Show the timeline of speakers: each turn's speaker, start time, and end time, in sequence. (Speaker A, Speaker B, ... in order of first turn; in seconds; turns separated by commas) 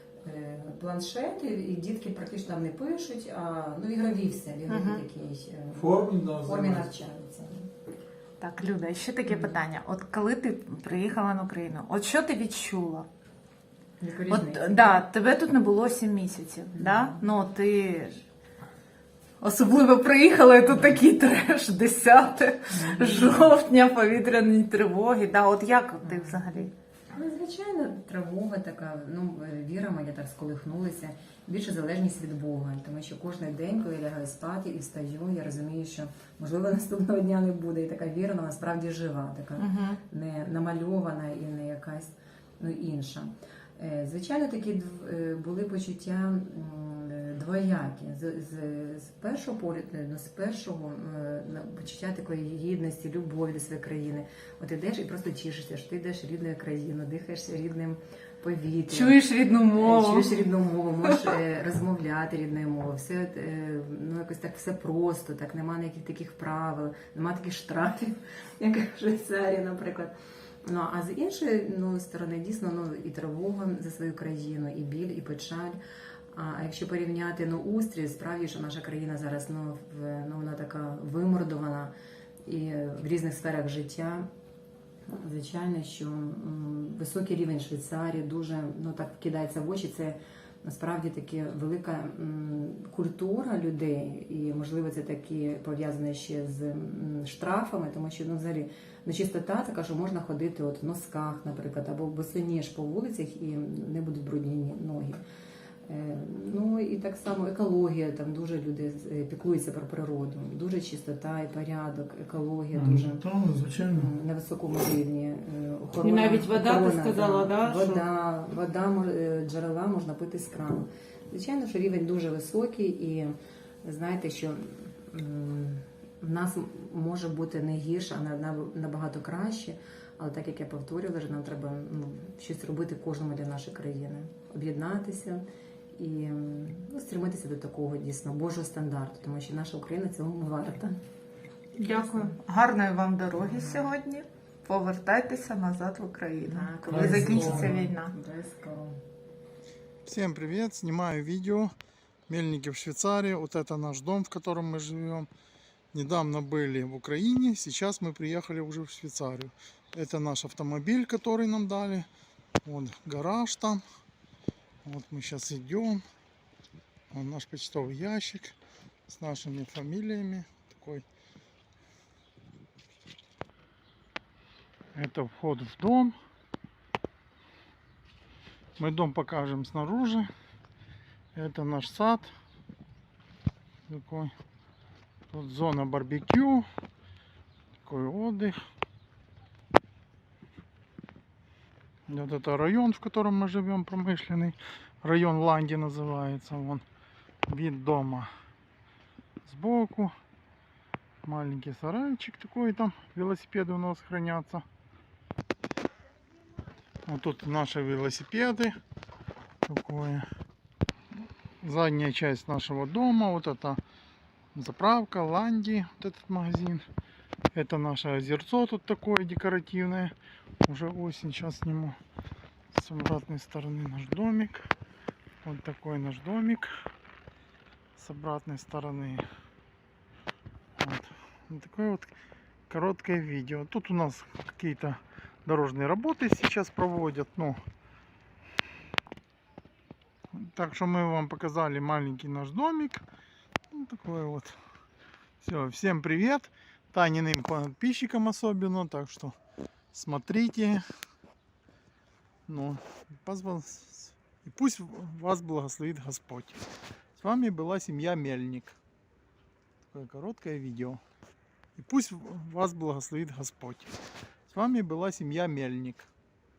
Speaker A: 0.2-7.7, Speaker B: 4.7-5.0, Speaker C: 5.7-6.9, Speaker B: 8.4-13.1, Speaker A: 9.3-9.6, Speaker A: 14.0-15.0, Speaker B: 14.3-18.2, Speaker A: 16.7-17.2, Speaker B: 19.4-26.7, Speaker A: 20.7-21.0, Speaker A: 22.7-23.5, Speaker A: 26.0-26.4, Speaker A: 27.1-70.1, Speaker B: 39.6-40.0, Speaker B: 58.9-60.5, Speaker B: 61.0-61.3, Speaker A: 70.6-75.8, Speaker A: 76.3-81.9, Speaker A: 82.5-84.3, Speaker A: 85.1-105.2, Speaker A: 105.8-113.2, Speaker C: 112.7-114.1, Speaker A: 113.8-135.4, Speaker B: 116.0-118.0, Speaker A: 135.9-140.9, Speaker B: 141.8-148.1, Speaker A: 141.9-142.3, Speaker A: 143.3-143.9, Speaker A: 146.4-149.0, Speaker C: 146.9-147.8, Speaker C: 150.1-151.7, Speaker C: 152.3-155.3, Speaker C: 155.9-162.1, Speaker C: 162.6-163.8, Speaker C: 164.8-166.0, Speaker C: 167.1-168.6, Speaker C: 169.1-171.0, Speaker C: 174.9-176.2, Speaker C: 178.8-180.3, Speaker C: 181.3-182.3, Speaker C: 183.9-184.3, Speaker C: 185.3-186.7, Speaker C: 187.8-188.6, Speaker C: 192.1-196.8, Speaker C: 197.5-198.3, Speaker C: 199.4-200.1, Speaker C: 201.2-204.6, Speaker C: 207.0-208.8, Speaker C: 209.7-210.2, Speaker C: 211.6-213.8, Speaker C: 214.5-216.8, Speaker C: 217.5-220.1, Speaker C: 220.6-222.0, Speaker C: 222.7-224.7, Speaker C: 225.4-226.7, Speaker C: 228.0-229.2, Speaker C: 230.8-232.1, Speaker C: 232.7-237.6, Speaker C: 240.3-243.0, Speaker C: 243.7-244.6, Speaker C: 245.4-249.3, Speaker C: 249.9-250.8, Speaker C: 252.5-256.6, Speaker C: 257.2-258.8, Speaker C: 259.9-261.0, Speaker C: 261.8-263.9, Speaker C: 264.5-266.1